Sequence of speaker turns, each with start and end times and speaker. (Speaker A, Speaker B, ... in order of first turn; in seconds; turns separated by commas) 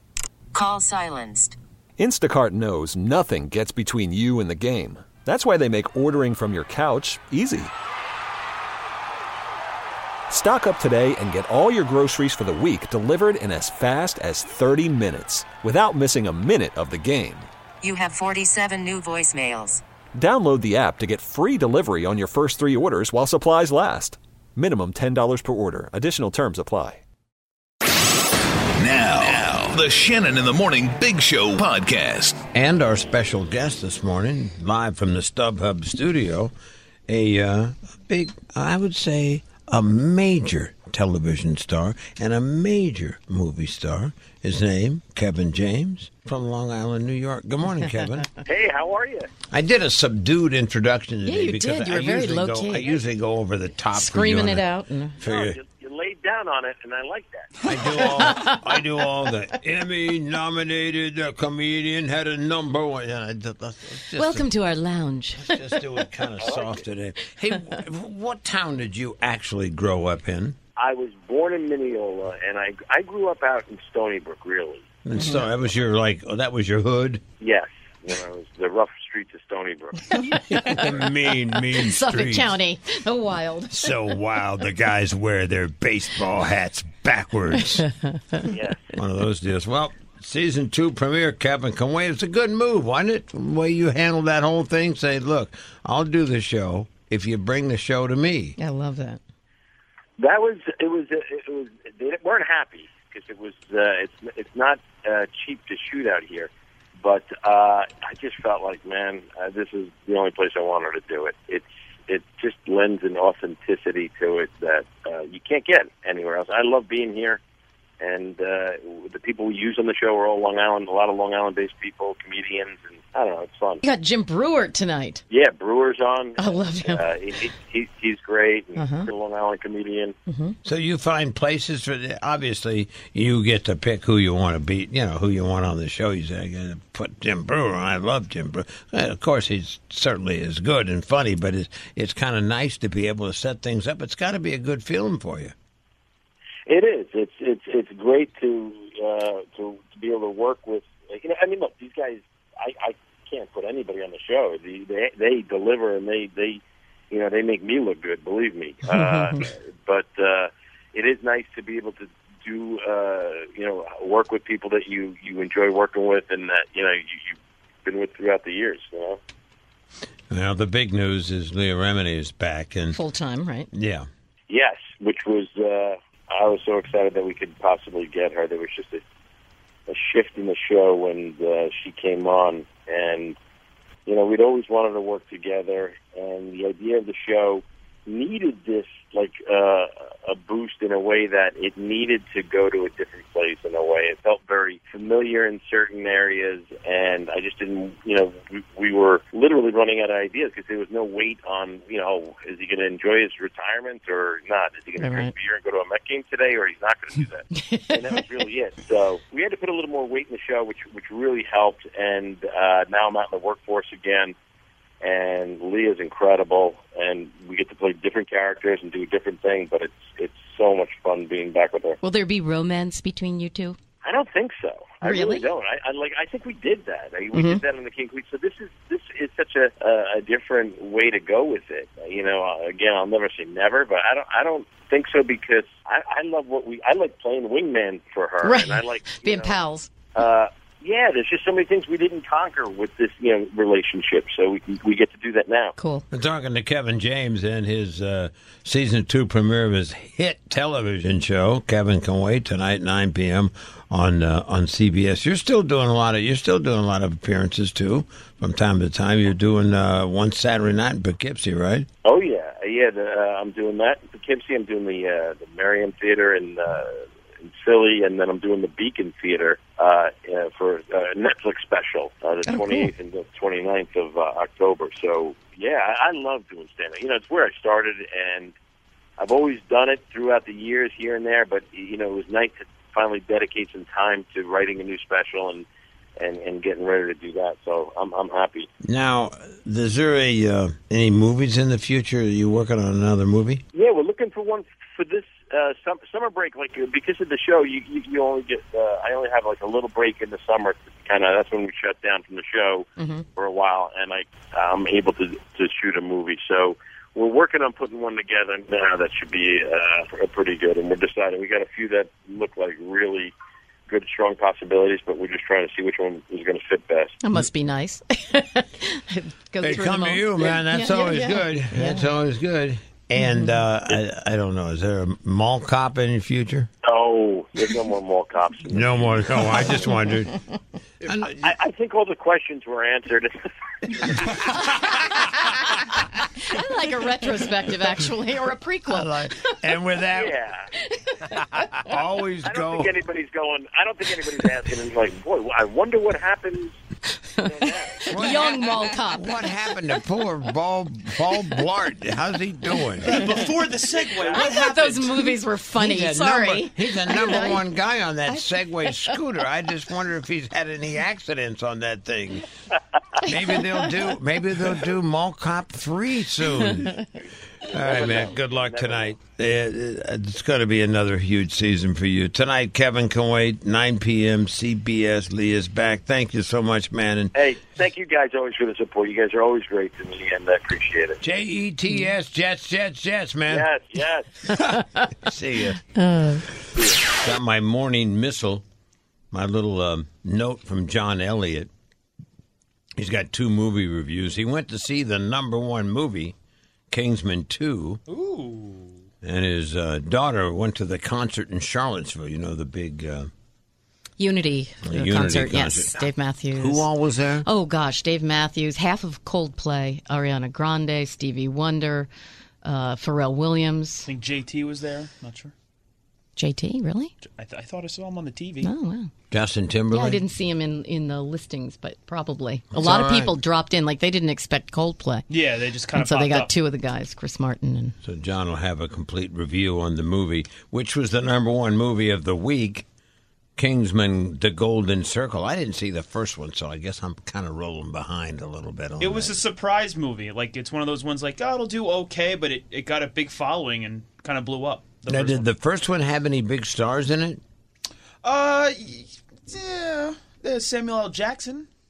Speaker A: 0.5-1.6, Speaker B: 2.0-7.7, Speaker B: 10.3-17.5, Speaker A: 17.8-19.8, Speaker B: 20.1-27.0, Speaker C: 28.8-32.4, Speaker D: 32.5-36.5, Speaker D: 37.1-48.3, Speaker E: 48.5-49.3, Speaker D: 49.5-54.7, Speaker F: 51.2-53.0, Speaker F: 53.9-55.2, Speaker D: 55.2-55.6, Speaker E: 55.2-58.3, Speaker D: 57.6-64.5, Speaker F: 64.2-65.8, Speaker D: 65.4-70.5, Speaker E: 66.4-66.8, Speaker E: 70.8-74.8, Speaker D: 75.0-77.2, Speaker F: 75.2-75.4, Speaker E: 77.4-80.2, Speaker F: 80.1-83.9, Speaker D: 80.5-82.6, Speaker D: 83.7-87.9, Speaker E: 88.5-88.8, Speaker D: 88.8-98.6, Speaker F: 98.6-99.2, Speaker E: 100.2-106.5, Speaker E: 107.0-117.4, Speaker E: 118.0-123.8, Speaker F: 123.8-125.2, Speaker E: 125.3-130.1, Speaker F: 126.4-127.0, Speaker F: 128.8-129.1, Speaker F: 130.3-130.6, Speaker D: 130.6-145.5, Speaker E: 146.7-169.2, Speaker F: 158.9-159.4, Speaker D: 170.3-173.0, Speaker F: 172.9-173.7, Speaker D: 173.7-174.1, Speaker E: 174.5-179.0, Speaker E: 179.9-183.3, Speaker E: 184.1-214.3, Speaker F: 205.0-205.3, Speaker F: 207.6-208.0, Speaker E: 215.0-222.0, Speaker F: 222.0-223.8, Speaker E: 224.0-239.5, Speaker F: 225.0-225.5, Speaker F: 227.3-227.6, Speaker F: 238.4-239.9, Speaker E: 240.1-245.7, Speaker F: 245.8-246.0, Speaker D: 246.1-261.9, Speaker E: 262.0-278.5, Speaker F: 272.5-272.9, Speaker E: 279.2-285.6, Speaker E: 286.2-288.7, Speaker D: 288.8-293.6, Speaker E: 293.7-313.3, Speaker F: 303.0-303.2, Speaker E: 313.9-317.1, Speaker F: 317.2-322.1, Speaker D: 319.6-326.7, Speaker F: 323.2-323.5, Speaker E: 326.9-329.7, Speaker D: 328.7-330.4, Speaker D: 331.0-331.5, Speaker E: 331.2-333.3, Speaker E: 334.0-334.4, Speaker F: 334.7-335.8, Speaker F: 336.5-339.5, Speaker D: 338.9-340.3, Speaker E: 340.1-340.6, Speaker F: 340.9-341.7, Speaker D: 341.8-342.9, Speaker E: 342.4-346.8, Speaker E: 347.4-348.5, Speaker F: 348.0-349.7, Speaker D: 348.1-353.3, Speaker G: 353.0-355.3, Speaker F: 353.1-353.5, Speaker F: 354.2-357.6, Speaker D: 355.8-362.4, Speaker F: 358.3-359.2, Speaker D: 363.2-367.1, Speaker F: 363.3-364.1, Speaker D: 367.6-377.3, Speaker E: 367.7-369.2, Speaker E: 377.3-381.2, Speaker D: 381.2-383.7, Speaker E: 383.5-384.3, Speaker D: 384.7-385.8, Speaker F: 385.9-386.4, Speaker D: 387.1-388.6, Speaker D: 389.3-391.7, Speaker D: 393.0-396.3, Speaker D: 396.9-398.0, Speaker G: 398.1-398.9, Speaker D: 399.2-403.3, Speaker F: 404.2-406.9, Speaker D: 404.8-407.4, Speaker F: 407.4-412.1, Speaker F: 412.6-414.1, Speaker G: 414.1-415.5, Speaker F: 416.4-417.1, Speaker G: 417.2-418.7, Speaker F: 418.6-419.1, Speaker D: 419.3-420.2, Speaker F: 419.9-425.3, Speaker D: 422.7-423.4, Speaker G: 425.3-426.5, Speaker F: 425.9-427.9, Speaker D: 428.0-432.8, Speaker D: 433.6-439.4, Speaker G: 439.0-445.5, Speaker D: 445.1-447.4, Speaker G: 448.2-451.7